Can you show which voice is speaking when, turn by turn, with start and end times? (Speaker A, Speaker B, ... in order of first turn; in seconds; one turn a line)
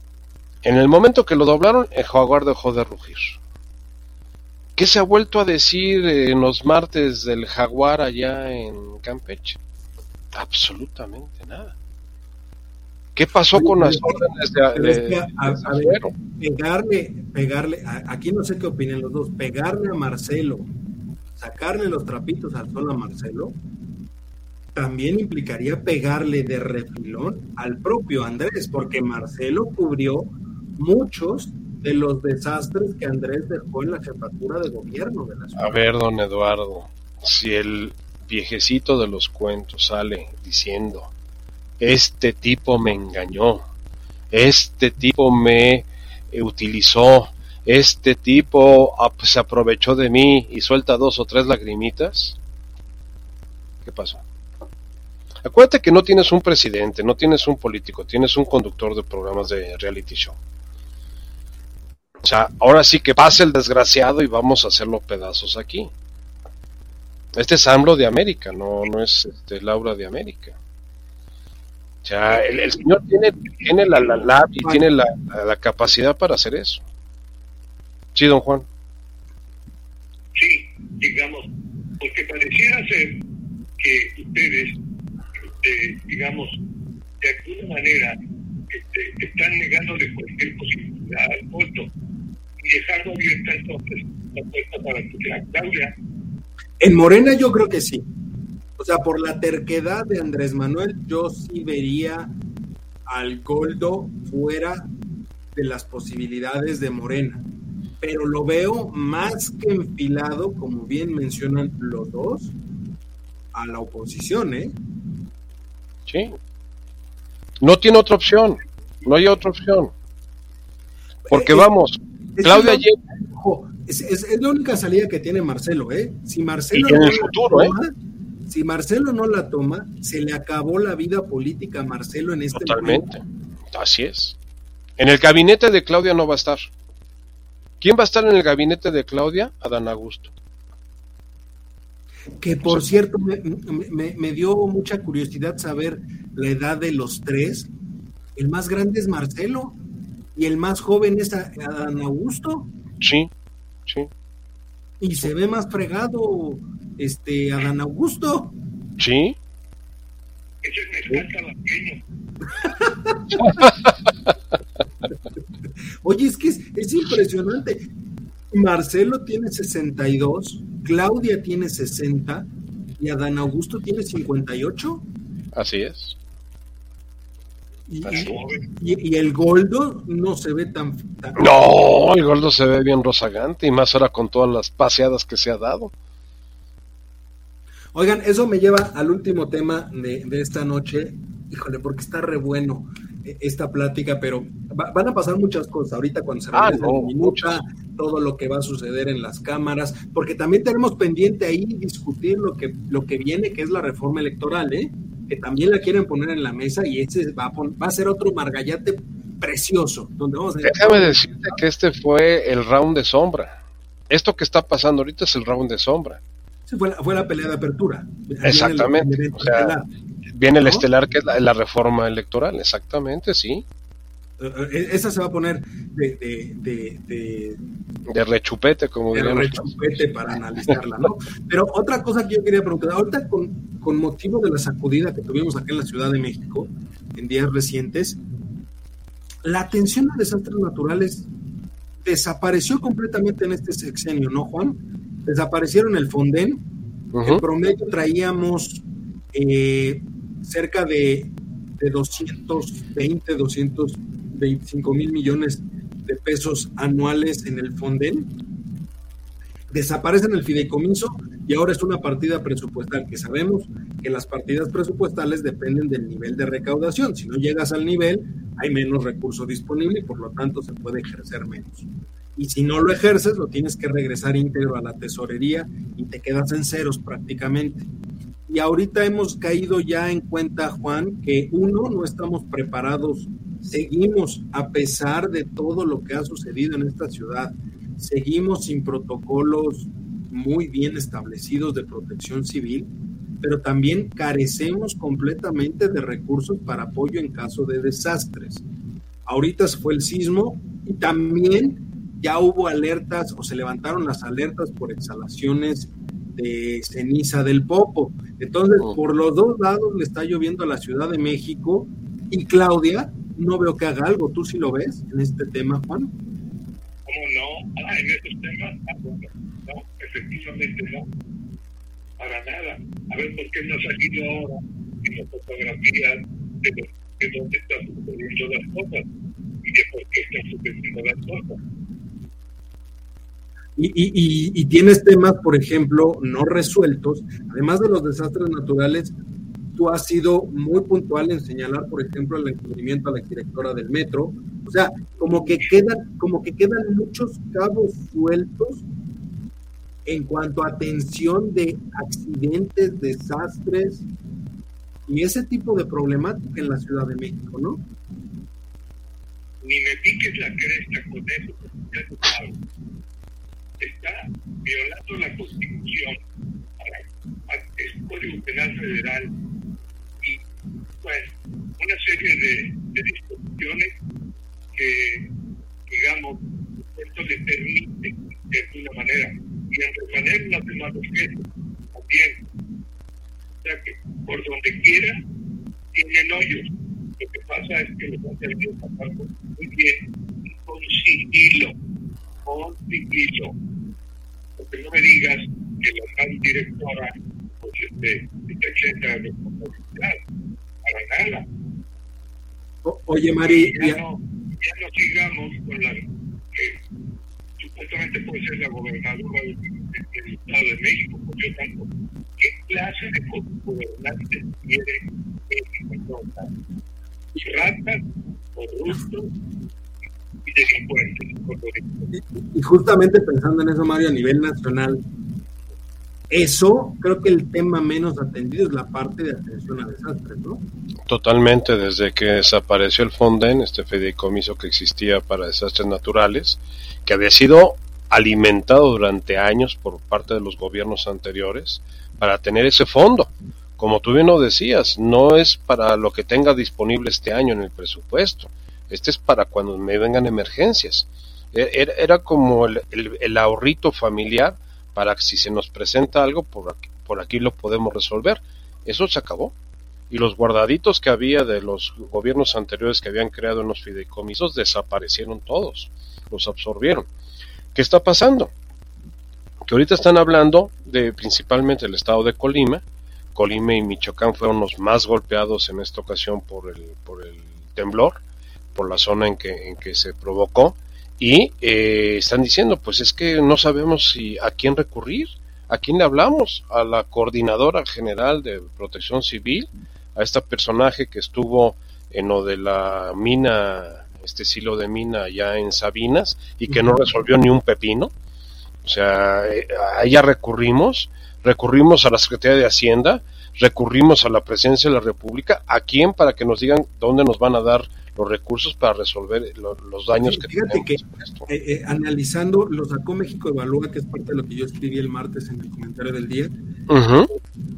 Speaker A: 0.6-3.4
Speaker A: 4.8-9.6
Speaker A: 10.3-11.7
Speaker A: 13.2-16.1
Speaker B: 13.5-20.7
Speaker B: 21.4-23.6
Speaker B: 24.7-35.8
Speaker A: 35.6-41.1
Speaker A: 41.8-43.6
Speaker A: 44.3-52.4
Speaker A: 53.8-54.2
Speaker A: 55.4-60.4
Speaker A: 62.2-65.9
Speaker A: 67.4-70.6
Speaker A: 72.0-76.8
Speaker B: 73.6-74.0
Speaker B: 74.6-74.8
Speaker A: 78.2-78.7
Speaker C: 80.3-83.2
Speaker C: 83.8-84.8
Speaker C: 85.4-86.6
Speaker C: 87.2-88.2
Speaker C: 88.7-91.9
Speaker C: 92.6-95.9
Speaker B: 96.8-98.1
Speaker B: 98.8-102.3
Speaker B: 103.1-104.9
Speaker B: 105.5-107.5
Speaker B: 108.0-112.5
Speaker B: 113.5-114.8
Speaker A: 116.1-116.4
Speaker A: 117.6-119.9
Speaker B: 121.3-121.7
Speaker A: 121.3-123.0
Speaker B: 122.4-127.9
Speaker A: 126.7-127.7
Speaker B: 128.5-133.0
Speaker A: 132.5-134.3
Speaker A: 135.0-136.7
Speaker A: 137.8-140.3
Speaker B: 142.4-147.7
Speaker B: 148.4-149.8
Speaker B: 150.3-152.7
Speaker A: 153.0-153.3
Speaker B: 155.0-158.6
Speaker A: 159.0-159.4
Speaker C: 160.6-162.0
Speaker B: 162.6-163.6
Speaker A: 163.4-163.9
Speaker B: 166.0-167.9
Speaker B: 168.5-172.5
Speaker B: 173.0-175.1
Speaker A: 175.5-176.2
Speaker B: 177.9-181.4
Speaker C: 178.1-178.6
Speaker A: 181.4-185.9
Speaker B: 187.9-211.6
Speaker A: 196.5-197.6
Speaker A: 210.6-213.6
Speaker A: 214.1-216.2
Speaker B: 216.7-219.9
Speaker A: 218.4-219.8
Speaker A: 220.3-223.6
Speaker B: 220.6-220.8
Speaker B: 224.4-227.6
Speaker A: 228.1-230.0
Speaker B: 229.1-238.2
Speaker B: 239.4-241.3
Speaker B: 242.0-246.6
Speaker A: 247.1-247.4
Speaker B: 247.2-258.3
Speaker B: 259.7-271.9
Speaker B: 272.4-277.9
Speaker B: 278.5-292.9
Speaker B: 293.4-298.6
Speaker B: 299.3-316.1
Speaker C: 317.1-321.1
Speaker C: 322.2-329.1
Speaker C: 329.6-331.6
Speaker B: 333.8-339.1
Speaker B: 339.8-348.9
Speaker B: 350.1-354.1
Speaker B: 355.1-357.8
Speaker C: 359.6-362.6
Speaker C: 363.8-366.2
Speaker C: 366.8-369.3
Speaker C: 371.0-373.9
Speaker C: 374.8-375.3
Speaker C: 375.9-376.4
Speaker C: 376.9-381.4
Speaker C: 381.9-382.4
Speaker C: 383.6-385.2
Speaker C: 385.9-391.7
Speaker C: 392.5-393.5
Speaker C: 394.6-400.2
Speaker C: 400.8-401.5
Speaker B: 402.8-404.0
Speaker C: 403.4-406.0
Speaker C: 406.5-406.8
Speaker C: 407.6-411.9
Speaker C: 412.4-416.5
Speaker C: 417.4-418.0
Speaker C: 418.6-419.3
Speaker C: 420.4-422.1
Speaker B: 422.1-425.0
Speaker B: 426.3-430.6
Speaker A: 431.1-459.5
Speaker A: 460.1-467.1
Speaker A: 467.7-468.5
Speaker A: 469.6-472.8
Speaker A: 473.3-478.2
Speaker A: 478.7-498.1
Speaker B: 496.7-497.1
Speaker A: 498.8-511.5
Speaker B: 510.1-516.5
Speaker A: 516.9-517.3